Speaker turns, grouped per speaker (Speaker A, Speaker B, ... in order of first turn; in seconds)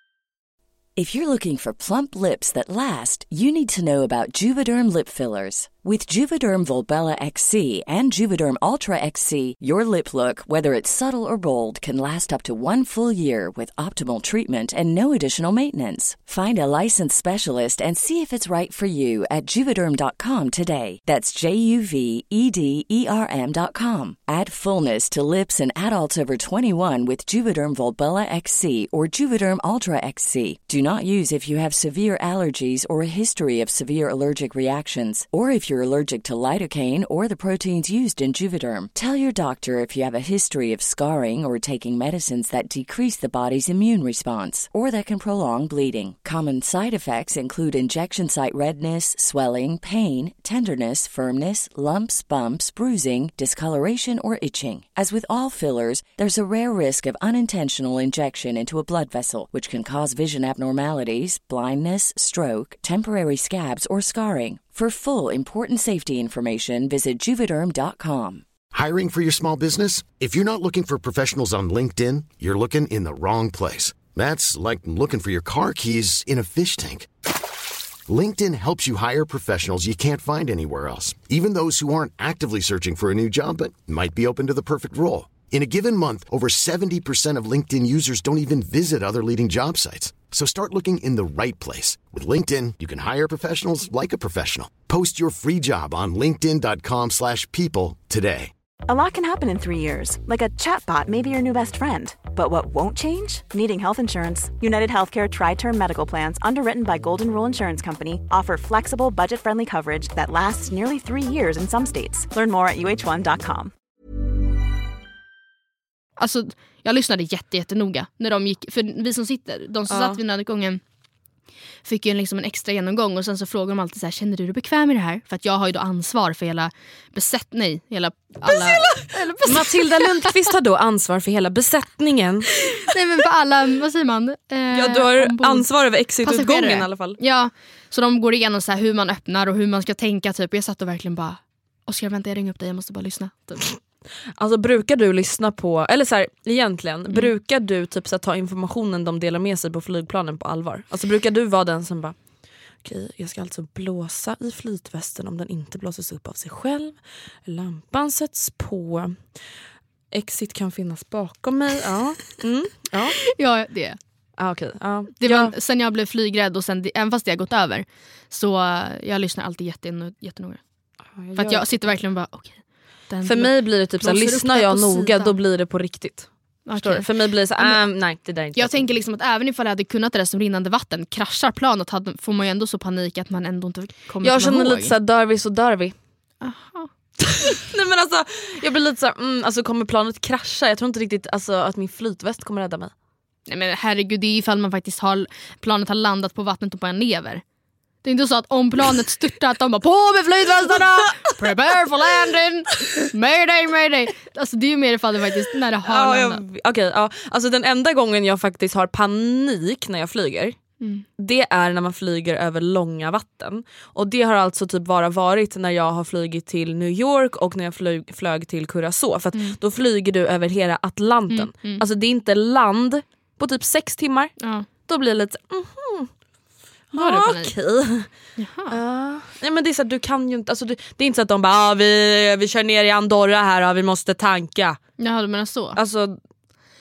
Speaker A: 0.9-68.4
Speaker B: 68.7-77.1, 78.1-98.5
Speaker C: 98.9-113.7
Speaker D: 116.2-120.8, 121.8-130.4, 132.6-135.7, 136.2-143.7, 163.2-164.0, 165.2-170.6, 171.3-175.3, 176.7-177.1, 178.5-184.9, 186.4-186.9, 193.5-197.4, 198.0-206.4, 221.3-221.8, 224.4-224.7, 226.9-227.5, 228.4-228.8, 235.0-235.8
Speaker E: 119.9-120.2, 128.5-132.5, 134.7-137.2, 144.4-152.2, 152.8-159.3, 160.1-163.2, 164.4-165.5, 171.1-171.8, 173.2-178.9, 184.2-185.9, 187.3-192.9, 205.9-210.6, 211.2-226.1, 226.9-228.1, 228.7-234.8, 235.8-236.2